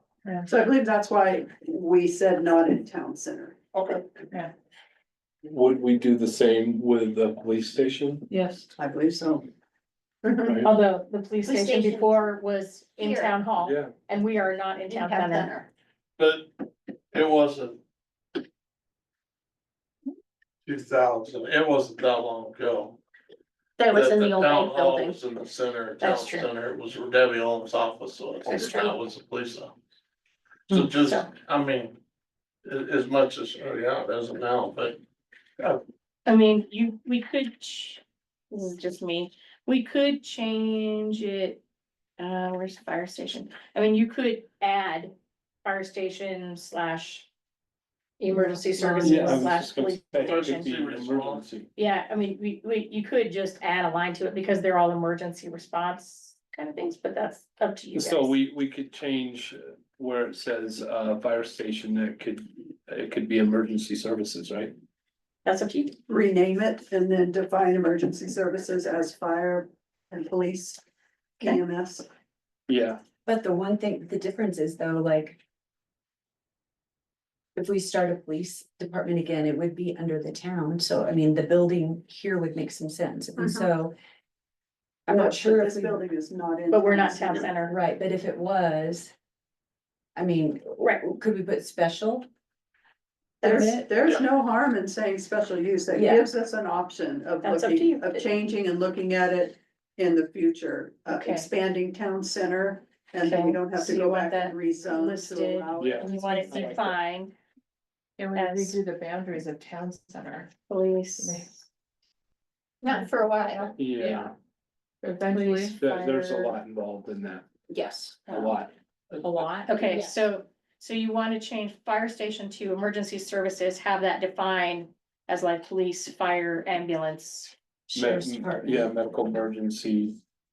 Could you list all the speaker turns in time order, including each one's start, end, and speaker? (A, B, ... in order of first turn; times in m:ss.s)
0:00.5-0:03.6 A
0:05.4-0:08.3 B
0:08.3-0:08.7 C
0:08.8-0:09.5 A
0:10.2-0:10.6 A
0:10.4-0:10.7 B
0:10.6-0:15.5 D
0:11.4-0:12.4 E
0:13.0-0:13.4 E
0:13.6-0:13.9 B
0:14.9-0:15.7 E
0:16.2-0:16.5 F
0:17.1-0:17.8 F
0:20.7-0:23.0 F
0:23.8-0:25.2 E
0:23.9-0:29.8 F
0:26.0-0:26.5 D
0:28.5-0:29.0 E
0:28.5-0:28.9 D
0:30.7-0:32.0 F
0:31.0-0:31.3 D
0:32.6-0:35.0 F
0:36.3-0:41.6 D
0:42.2-0:47.3 D
0:48.2-0:50.7 D
0:48.8-0:49.4 A
0:49.0-0:51.7 B
0:50.2-0:51.5 F
0:51.8-0:58.4 D
0:57.9-1:04.7 B
1:05.4-1:06.0 D
1:06.1-1:10.8 A
1:11.4-1:12.1 A
1:12.7-1:13.0 B
1:13.3-1:15.4 G
1:17.6-1:23.9 G
1:23.4-1:23.7 A
1:25.1-1:26.0 G
1:25.1-1:27.5 A
1:26.7-1:27.7 D
1:27.6-1:29.1 G
1:30.2-1:32.3 G
1:33.4-1:33.9 G
1:33.4-1:46.8 A
1:35.9-1:36.3 G
1:37.4-1:38.1 D
1:41.1-1:41.5 D
1:43.2-1:47.4 D
1:45.8-1:47.0 B
1:48.2-1:50.5 C
1:48.3-1:48.8 D
1:50.7-1:51.5 D
1:51.2-1:51.6 C
1:52.8-1:53.8 E
1:53.8-1:54.3 B
1:54.0-1:54.3 C
1:55.0-1:56.6 C
1:55.3-1:55.7 D
1:55.7-1:57.5 B
1:57.7-1:58.4 E
1:58.3-1:59.2 B
1:59.2-1:59.8 C
1:59.7-2:07.5 D
1:59.8-2:00.3 E
2:07.9-2:08.9 G
2:07.9-2:10.2 B